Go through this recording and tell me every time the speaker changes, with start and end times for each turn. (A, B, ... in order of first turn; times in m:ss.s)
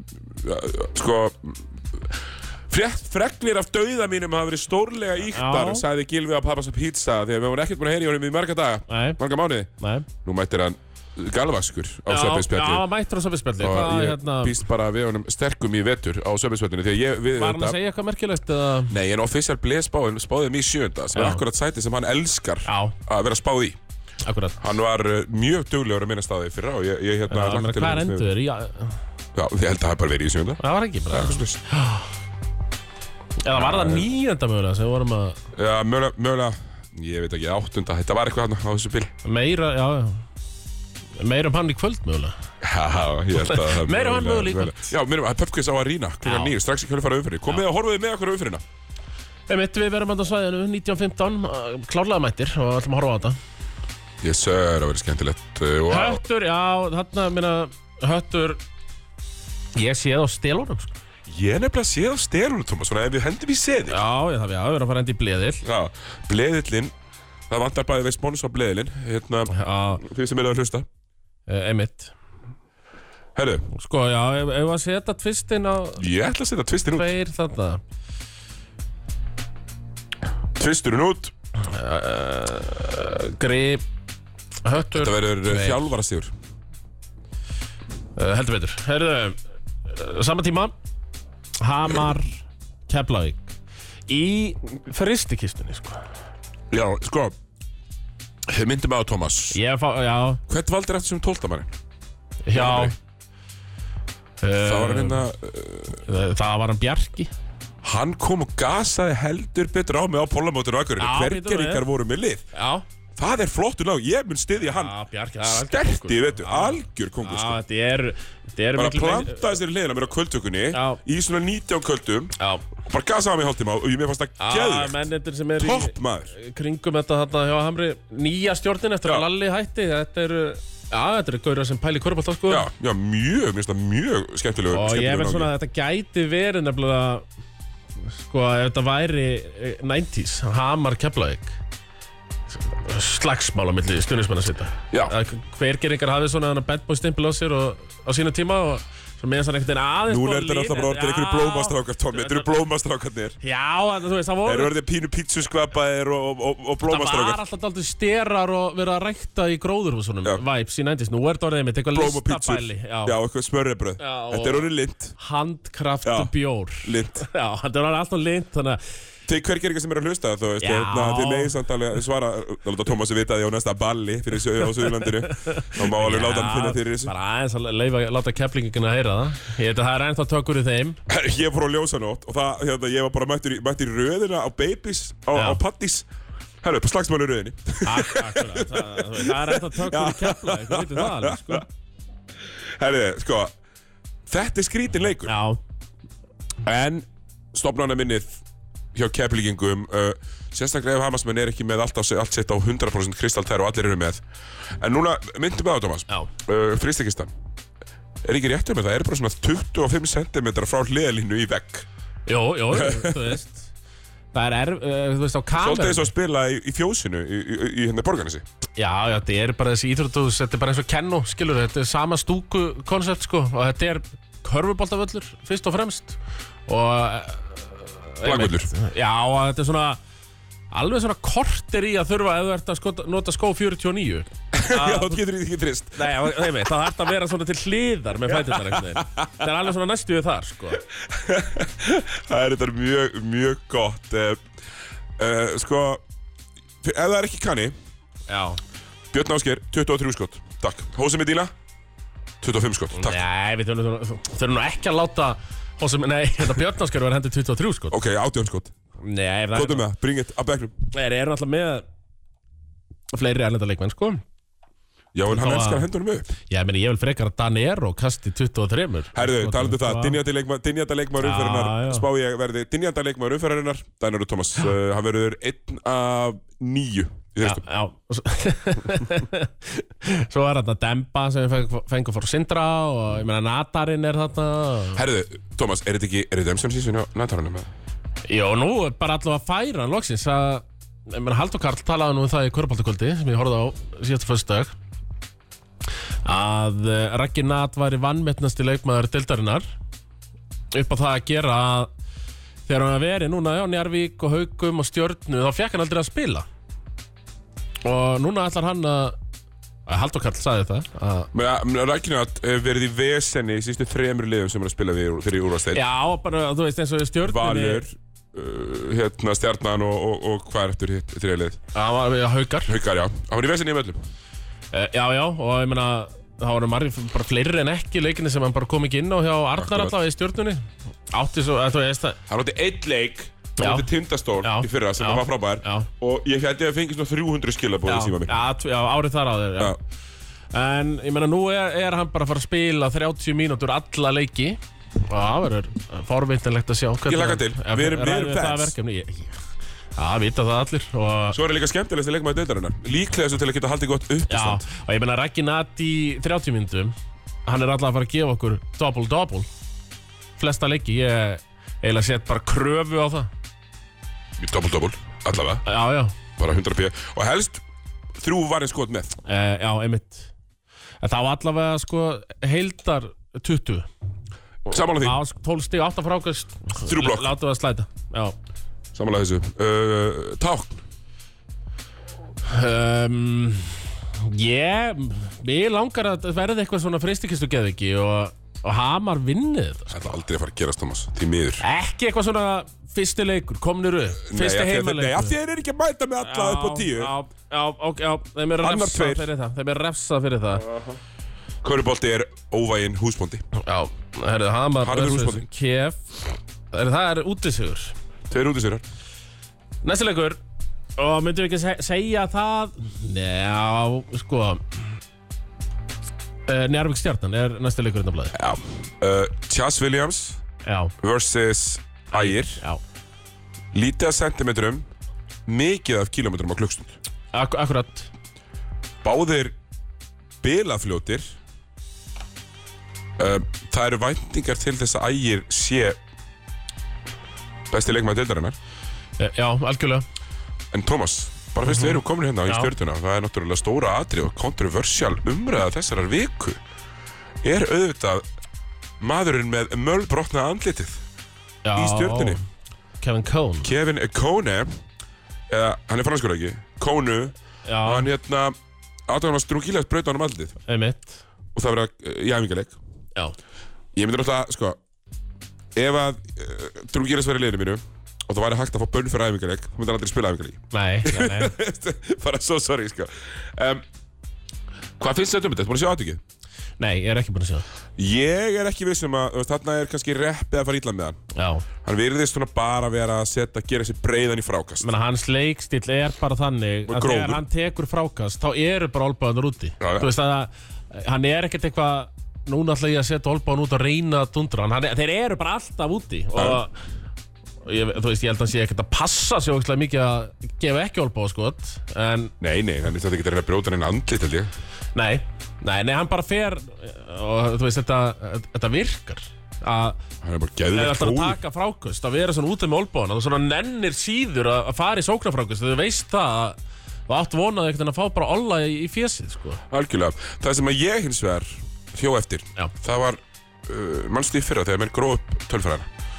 0:00.2-0:12.8 A
0:05.3-0:05.8 B
0:08.9-0:09.2 B
0:09.8-0:10.1 B
0:12.1-0:14.6 B
0:13.6-0:17.8 A
0:17.3-0:18.9 B
0:18.9-0:23.8 A
0:21.1-0:21.4 B
0:22.6-0:22.9 B
0:24.2-0:24.6 B
0:24.6-0:28.3 A
0:27.3-0:29.0 B
0:29.3-0:31.6 A
0:30.6-0:32.1 B
0:33.4-0:35.4 B
0:33.5-0:34.0 A
0:35.5-0:39.1 A
0:39.2-0:40.2 B
0:41.2-0:42.3 B
0:42.6-0:48.6 A
0:43.3-0:44.9 B
0:46.2-0:46.5 B
0:49.5-0:53.4 B
0:54.2-0:56.2 A
0:55.9-0:58.6 B
0:59.7-1:00.9 B
1:01.3-1:04.0 A
1:03.9-1:05.6 B
1:05.6-1:06.9 A
1:07.5-1:10.8 A
1:09.5-1:10.0 B
1:11.5-1:12.1 B
1:13.3-1:13.7 A
1:13.7-1:16.0 B
1:16.0-1:17.1 A
1:16.9-1:17.8 B
1:20.5-1:21.3 A
1:21.6-1:23.8 B
1:24.6-1:25.8 B
1:24.9-1:26.3 A
1:28.2-1:30.7 B
1:31.6-1:33.5 B
1:34.1-1:36.0 B
1:36.7-1:37.4 A
1:38.5-1:39.6 A
1:39.5-1:40.4 B
1:40.5-1:41.7 A
1:42.4-1:42.9 B
1:42.5-1:42.9 A
1:44.4-1:45.2 B
1:44.6-1:46.0 A
1:46.0-1:47.3 B
1:47.8-1:52.4 A
1:51.0-1:51.8 B
1:52.5-1:52.8 B
1:53.2-1:57.6 A
1:54.6-1:59.4 B
1:58.8-2:05.0 A
2:00.7-2:01.0 B
2:02.4-2:02.6 B
2:04.4-2:12.7 B
2:05.6-2:06.3 A
2:12.5-2:15.5 A
2:14.7-2:17.2 B
2:18.1-2:21.6 B
2:22.5-2:32.6 B
2:30.1-2:33.4 A
2:33.4-2:34.7 B
2:34.4-2:37.4 A
2:36.8-2:43.2 B
2:41.9-2:45.1 A
2:44.0-2:48.8 B
2:46.0-2:47.2 A
2:49.3-2:57.1 A
2:50.6-2:51.6 B
2:54.9-3:01.0 B
3:01.1-3:06.1 A
3:05.3-3:05.6 B
3:06.6-3:11.6 A
3:07.8-3:11.6 B
3:12.7-3:13.5 A
3:14.3-3:15.3 A
3:15.2-3:15.6 B
3:16.6-3:18.4 A
3:18.9-3:24.2 A
3:24.8-3:27.3 A
3:28.2-3:31.8 A
3:32.3-3:33.7 B
3:32.7-3:33.4 A
3:34.3-3:36.1 B
3:35.6-3:38.4 A
3:38.8-3:50.0 B
3:48.2-3:48.7 A
3:50.7-3:55.2 B
3:54.5-3:56.7 A
3:56.0-4:00.8 B
3:58.3-3:59.3 A
4:01.0-4:04.4 A
4:05.2-4:06.0 A
4:06.8-4:07.7 A
4:08.3-4:08.6 B
4:09.1-4:11.5 A
4:12.4-4:13.2 A
4:12.9-4:18.0 B
4:17.9-4:18.7 A
4:19.0-4:19.8 B
4:19.5-4:20.7 A
4:20.9-4:21.8 B
4:23.1-4:24.2 B
4:25.1-4:26.3 A
4:25.2-4:25.9 B
4:26.5-4:30.2 B
4:29.1-4:37.6 A
4:31.2-4:32.0 B
4:37.4-4:45.0 B
4:44.9-4:47.7 A
4:48.3-4:54.7 B
4:56.2-4:59.6 B
5:00.7-5:01.9 B
5:02.7-5:06.4 B
5:07.8-5:09.2 B
5:09.9-5:11.3 B
5:11.3-5:15.8 A
5:15.7-5:17.8 B
5:17.2-5:21.6 A
5:21.7-5:22.7 B
5:22.7-5:24.0 A
5:24.7-5:32.2 B
5:29.6-5:29.9 A
5:32.3-5:38.4 A
5:33.6-5:33.8 B
5:34.4-5:35.9 B
5:37.8-5:39.8 B
5:40.5-5:49.4 B
5:47.1-5:48.7 A
5:50.0-5:51.4 B
5:51.3-5:54.6 A
5:54.3-5:56.9 B
5:57.4-5:59.5 B
6:00.4-6:03.3 B
6:04.4-6:05.6 A
6:05.6-6:06.1 B
6:06.4-6:07.6 A
6:08.1-6:09.2 A
6:09.2-6:10.3 B
6:11.0-6:13.9 B
6:14.7-6:15.2 A
6:14.7-6:18.4 B
6:16.8-6:17.4 A
6:18.9-6:20.8 A
6:22.4-6:30.2 B
6:29.9-6:31.6 A
6:31.6-6:35.3 B
6:34.2-6:37.1 A
6:36.2-6:40.6 B
6:38.6-6:39.3 A
6:40.6-6:41.0 A
6:41.6-6:43.4 A
6:43.5-6:46.0 B
6:44.8-6:45.5 A
6:46.7-6:47.9 B
6:48.3-6:48.8 A
6:49.8-6:50.4 B
6:51.0-6:54.6 B
6:56.5-6:58.3 B
6:58.3-7:00.4 A
7:00.6-7:00.9 B
7:01.0-7:02.6 A
7:02.1-7:02.8 B
7:03.7-7:04.9 A
7:05.5-7:07.0 A
7:07.3-7:08.1 B
7:09.0-7:09.5 A
7:10.4-7:11.3 A
7:13.2-7:16.0 A
7:17.7-7:18.6 A
7:19.2-7:20.0 B
7:20.7-7:26.6 A
7:21.6-7:22.7 B
7:27.4-7:28.2 A
7:29.0-7:31.0 A
7:31.6-7:32.4 B
7:31.7-7:32.4 A
7:33.0-7:33.7 B
7:33.6-7:34.7 A
7:35.5-7:38.6 A
7:37.6-7:38.1 B
7:39.1-7:40.6 A
7:40.6-7:41.2 B
7:41.5-7:42.8 A
7:43.9-7:44.8 A
7:45.8-7:53.8 A
7:50.7-7:51.5 B
7:55.0-7:56.2 A
7:56.8-7:57.6 B
7:58.0-8:01.2 A
8:01.3-8:01.6 B
8:01.8-8:04.9 A
8:04.8-8:16.7 B
8:06.9-8:07.4 A
8:09.8-8:10.1 A
8:16.4-8:16.6 A
8:17.6-8:22.3 B
8:22.4-8:24.5 A
8:24.9-8:30.0 B
8:30.2-8:31.4 A
8:30.7-8:36.6 B
8:37.1-8:39.6 B
8:39.7-8:45.9 A